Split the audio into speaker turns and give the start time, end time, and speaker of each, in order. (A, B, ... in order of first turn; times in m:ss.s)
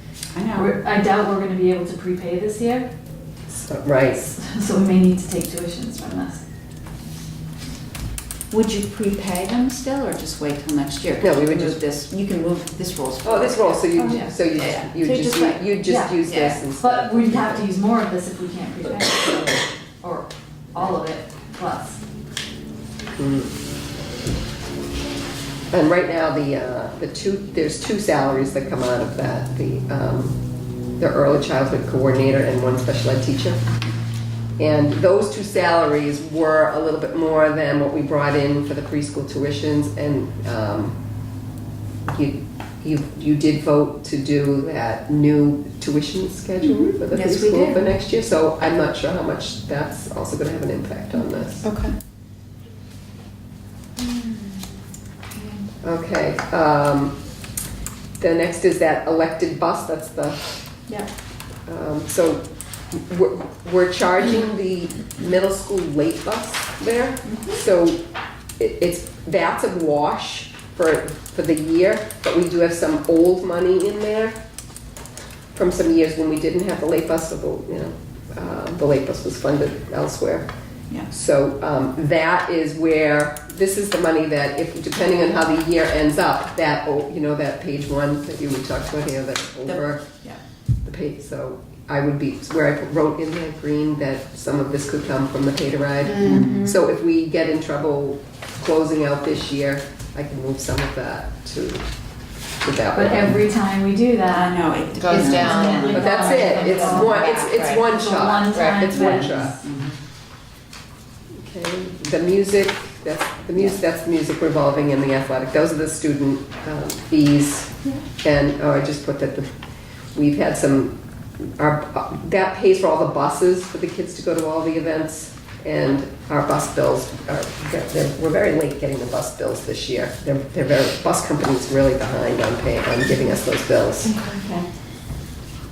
0:00.3-0:00.8 A
0:00.5-0:02.9 B
0:03.5-0:04.3 C
0:04.3-0:06.4 B
0:08.5-0:16.6 A
0:11.2-0:11.8 C
0:13.2-0:17.7 C
0:14.0-0:14.3 B
0:15.8-0:16.2 B
0:16.8-0:22.0 B
0:23.2-0:23.5 C
0:25.7-0:30.4 C
0:31.0-0:33.6 C
0:34.6-0:41.0 C
0:42.1-0:51.7 C
0:46.6-0:47.9 A
0:51.6-0:51.9 D
0:54.0-0:54.5 A
0:55.8-0:57.2 C
0:58.2-1:00.4 C
1:01.7-1:08.0 C
1:07.2-1:07.6 A
1:08.6-1:14.4 C
1:15.5-1:20.5 C
1:21.1-1:30.1 C
1:29.6-1:30.4 A
1:30.8-1:41.8 C
1:36.0-1:36.4 D
1:36.3-1:36.8 A
1:42.6-1:43.4 C
1:42.9-1:44.6 B
1:44.3-1:47.3 A
1:45.0-1:46.0 D
1:45.1-1:49.6 B
1:45.9-1:49.5 C
1:46.6-1:47.5 D
1:48.5-1:48.8 D
1:48.9-1:49.9 A
1:51.4-1:59.5 C
2:00.1-2:14.1 C
2:14.0-2:14.6 A